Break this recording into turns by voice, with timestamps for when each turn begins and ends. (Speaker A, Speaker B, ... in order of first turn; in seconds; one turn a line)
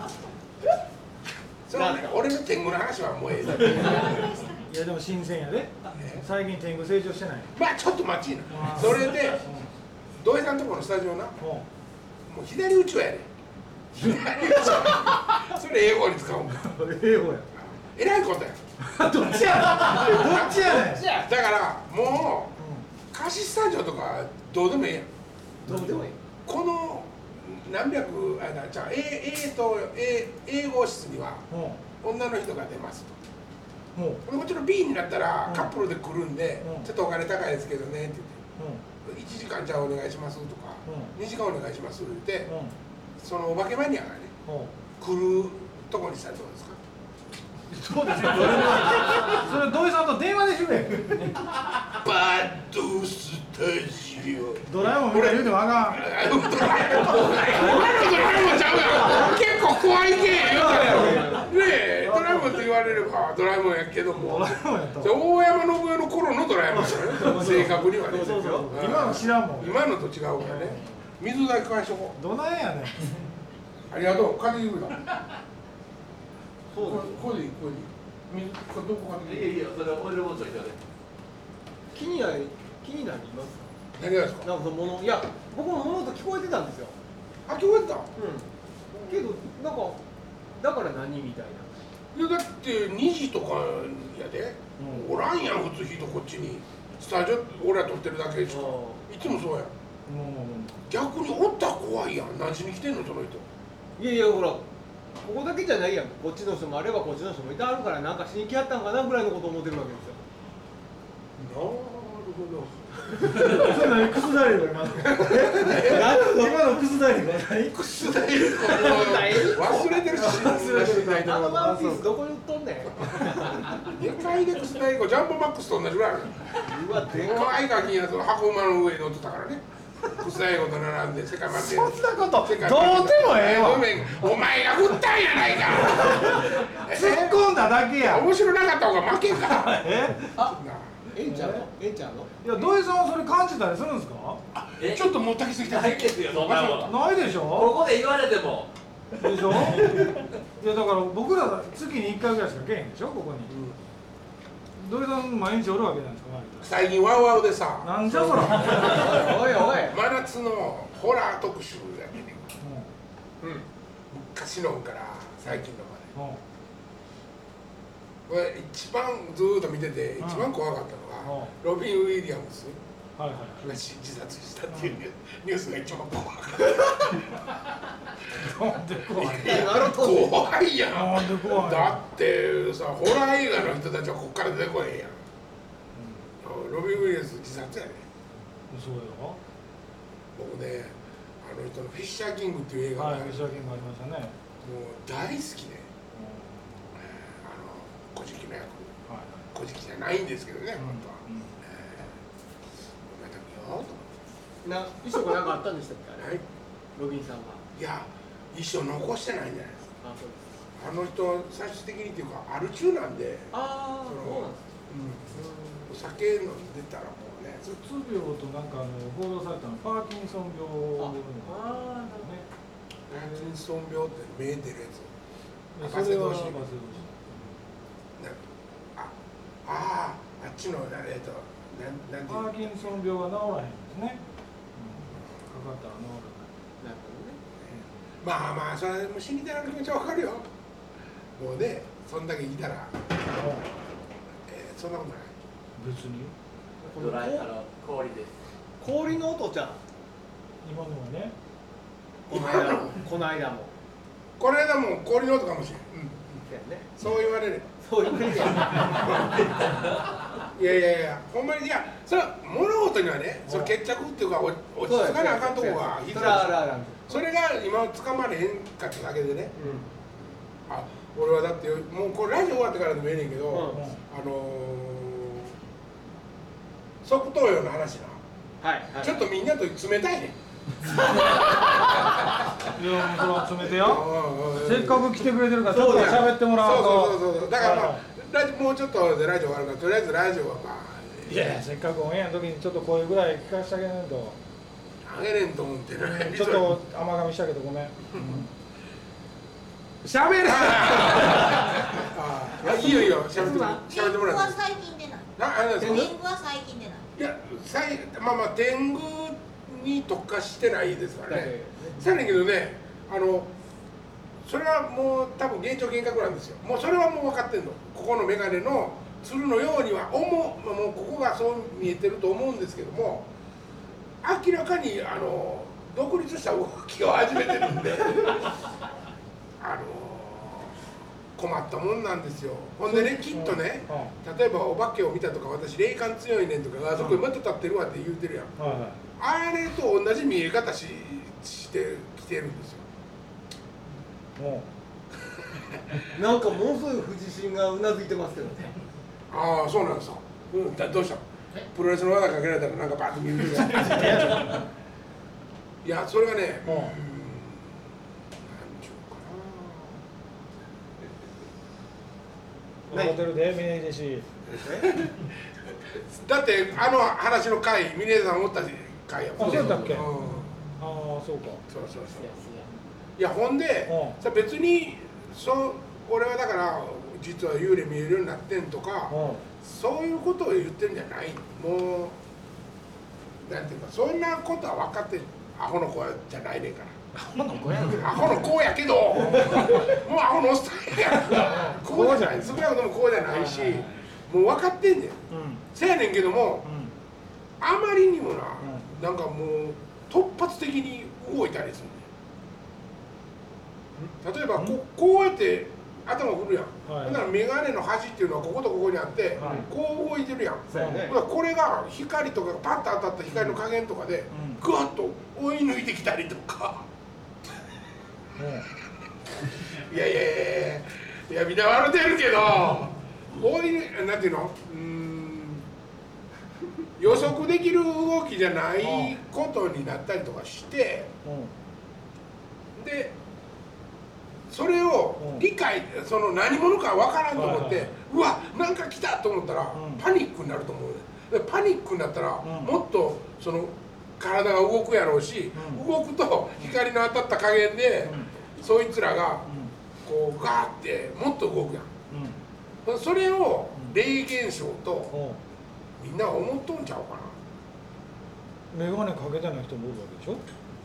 Speaker A: 1.7-4.4
Speaker B: 1.7-2.2
Speaker B: 3.5-4.4
Speaker C: 4.5-7.5
Speaker A: 6.0-6.2
Speaker A: 7.5-9.4
Speaker C: 8.5-9.7
Speaker A: 10.2-11.4
Speaker C: 11.4-11.7
Speaker A: 12.3-13.3
Speaker A: 13.9-16.7
Speaker B: 14.7-15.2
Speaker B: 16.7-17.4
Speaker A: 17.6-18.6
Speaker B: 18.8-21.3
Speaker C: 19.1-21.1
Speaker A: 19.9-22.6
Speaker C: 22.6-22.9
Speaker A: 23.1-25.1
Speaker C: 25.6-26.1
Speaker B: 25.6-26.2
Speaker A: 26.4-31.4
Speaker C: 31.5-31.8
Speaker A: 32.0-33.1
Speaker C: 33.9-34.2
Speaker A: 34.2-38.4
Speaker C: 35.4-35.7
Speaker C: 36.6-36.9
Speaker C: 38.6-38.8
Speaker A: 39.0-42.5
Speaker C: 40.9-41.1
Speaker C: 42.5-42.7
Speaker A: 43.2-44.3
Speaker C: 44.5-44.7
Speaker A: 45.0-46.8
Speaker C: 47.7-51.4
Speaker A: 48.1-49.0
Speaker A: 51.8-72.2
Speaker C: 54.6-56.1
Speaker C: 57.6-57.9
Speaker B: 59.0-59.3
Speaker B: 60.3-61.6
Speaker C: 60.8-61.2
Speaker C: 62.0-62.6
Speaker C: 64.2-65.2
Speaker B: 66.7-68.9
Speaker C: 66.7-69.8
Speaker C: 70.4-70.8
Speaker C: 72.2-73.2
Speaker A: 73.9-75.0
Speaker B: 76.7-77.3
Speaker A: 76.8-79.6
Speaker D: 79.2-80.8
Speaker B: 81.9-83.7
Speaker A: 84.0-84.5
Speaker B: 84.4-86.9
Speaker A: 87.5-88.1
Speaker B: 88.2-88.5
Speaker A: 88.9-89.2
Speaker B: 89.0-90.0
Speaker B: 90.6-91.8
Speaker A: 92.1-99.7
Speaker C: 94.8-95.1
Speaker B: 98.5-99.0
Speaker C: 100.0-100.9
Speaker A: 100.9-103.4
Speaker B: 104.0-104.6
Speaker B: 105.2-110.2
Speaker A: 111.4-113.4
Speaker B: 113.2-113.7
Speaker C: 113.3-117.9
Speaker A: 115.0-116.2
Speaker B: 115.5-116.7
Speaker A: 117.7-121.7
Speaker B: 118.6-123.8
Speaker C: 120.0-122.2
Speaker C: 123.2-123.5
Speaker A: 123.7-137.4
Speaker B: 126.6-127.6
Speaker C: 131.5-134.4
Speaker C: 135.9-138.3
Speaker A: 138.0-140.9
Speaker C: 139.7-140.4
Speaker B: 141.1-142.3
Speaker C: 141.2-141.7
Speaker C: 142.4-144.4
Speaker A: 144.5-146.9
Speaker D: 144.8-148.7
Speaker C: 146.8-147.8
Speaker C: 149.2-153.5
Speaker D: 149.5-150.2
Speaker A: 153.5-153.8
Speaker C: 154.8-156.7
Speaker A: 156.6-162.4
Speaker C: 157.8-159.2
Speaker B: 158.5-160.0
Speaker C: 162.6-162.9
Speaker B: 163.4-163.7
Speaker A: 164.1-166.1
Speaker C: 166.1-166.4
Speaker A: 168.3-172.8
Speaker C: 170.2-170.5
Speaker C: 171.2-171.5
Speaker C: 173.2-173.8
Speaker A: 173.6-177.4
Speaker C: 174.7-175.0
Speaker C: 178.3-179.9
Speaker A: 179.1-185.2
Speaker B: 179.4-180.4
Speaker C: 180.9-182.0
Speaker A: 186.4-188.0
Speaker C: 188.7-189.4
Speaker A: 190.3-193.4
Speaker C: 192.9-194.3
Speaker A: 194.6-195.9
Speaker C: 196.1-196.9
Speaker A: 197.0-198.9
Speaker C: 199.1-199.5
Speaker A: 199.5-202.1
Speaker C: 200.8-201.6
Speaker A: 203.1-204.1
Speaker B: 204.6-206.3
Speaker A: 206.2-206.4
Speaker B: 206.9-207.6
Speaker A: 207.8-209.9
Speaker B: 210.0-210.4
Speaker A: 210.8-213.5
Speaker B: 213.5-214.6
Speaker A: 214.0-217.6
Speaker B: 215.3-215.9
Speaker C: 217.6-222.4
Speaker B: 221.0-222.4
Speaker A: 223.1-225.1
Speaker C: 225.8-227.5
Speaker A: 225.8-226.6
Speaker A: 229.6-232.6
Speaker C: 232.3-234.2
Speaker C: 234.7-236.5
Speaker B: 236.8-237.4
Speaker A: 238.2-240.5
Speaker A: 241.3-243.1
Speaker C: 243.3-243.7
Speaker A: 244.5-245.3
Speaker C: 245.8-246.3
Speaker B: 246.8-247.5
Speaker D: 246.9-248.3
Speaker B: 248.8-249.8
Speaker C: 250.6-251.3
Speaker A: 252.3-253.1
Speaker B: 252.3-253.7
Speaker A: 254.4-256.4
Speaker B: 256.4-256.9
Speaker A: 256.9-257.7
Speaker B: 257.8-259.6
Speaker A: 258.9-269.6
Speaker C: 263.5-263.7
Speaker B: 264.9-267.2
Speaker B: 269.6-269.8
Speaker A: 270.7-275.5
Speaker B: 273.5-273.8
Speaker C: 273.7-274.0
Speaker A: 277.0-278.2
Speaker B: 278.6-279.2
Speaker A: 279.0-280.3
Speaker A: 280.9-282.1
Speaker C: 282.7-288.0
Speaker A: 283.7-285.2
Speaker B: 285.6-286.4
Speaker A: 285.8-291.6
Speaker C: 291.2-294.4
Speaker A: 295.1-296.8
Speaker C: 295.9-298.5
Speaker A: 300.0-304.8
Speaker B: 301.1-301.5
Speaker B: 302.6-303.9
Speaker E: 303.9-305.3
Speaker A: 305.4-306.2
Speaker B: 305.8-306.1
Speaker E: 306.0-307.1
Speaker A: 307.1-313.5
Speaker B: 311.3-312.0
Speaker A: 314.4-323.3
Speaker A: 324.2-328.5
Speaker A: 329.6-330.7
Speaker A: 331.4-338.5
Speaker C: 332.8-334.1
Speaker C: 336.9-337.2
Speaker C: 338.6-339.0
Speaker A: 339.2-342.8
Speaker C: 344.4-344.7
Speaker B: 346.1-348.7
Speaker A: 349.3-354.6
Speaker C: 353.7-354.6
Speaker A: 355.8-357.6
Speaker C: 356.6-356.9
Speaker A: 358.4-360.0
Speaker C: 362.9-364.3
Speaker B: 362.9-363.2
Speaker B: 364.6-364.9
Speaker A: 365.9-370.5
Speaker C: 369.4-370.1
Speaker C: 370.8-371.6
Speaker A: 371.7-372.5
Speaker B: 372.2-372.7
Speaker A: 373.2-382.1
Speaker C: 373.9-374.2
Speaker C: 379.1-379.4
Speaker A: 383.4-387.0
Speaker C: 387.1-388.3
Speaker A: 387.8-396.7
Speaker C: 389.2-389.7
Speaker C: 391.3-392.6
Speaker C: 393.4-393.9
Speaker C: 395.3-395.6
Speaker C: 396.6-396.9
Speaker A: 397.6-402.1
Speaker C: 398.6-398.9
Speaker A: 404.2-416.9
Speaker C: 406.9-407.3
Speaker C: 409.4-409.7
Speaker B: 409.4-409.6
Speaker B: 410.7-411.1
Speaker C: 410.7-411.1
Speaker C: 414.3-414.6
Speaker C: 418.4-418.7
Speaker A: 419.6-425.6
Speaker A: 427.0-431.1
Speaker C: 428.8-429.1
Speaker C: 431.2-431.5
Speaker A: 432.7-433.1
Speaker A: 434.5-449.5
Speaker C: 435.2-435.4
Speaker C: 437.3-437.9
Speaker C: 439.7-440.0
Speaker C: 442.4-442.8
Speaker C: 445.5-445.8
Speaker C: 448.0-448.3
Speaker A: 450.0-451.9
Speaker C: 452.1-452.4
Speaker A: 452.8-455.2
Speaker C: 455.1-455.4
Speaker A: 456.0-457.3
Speaker C: 458.7-460.4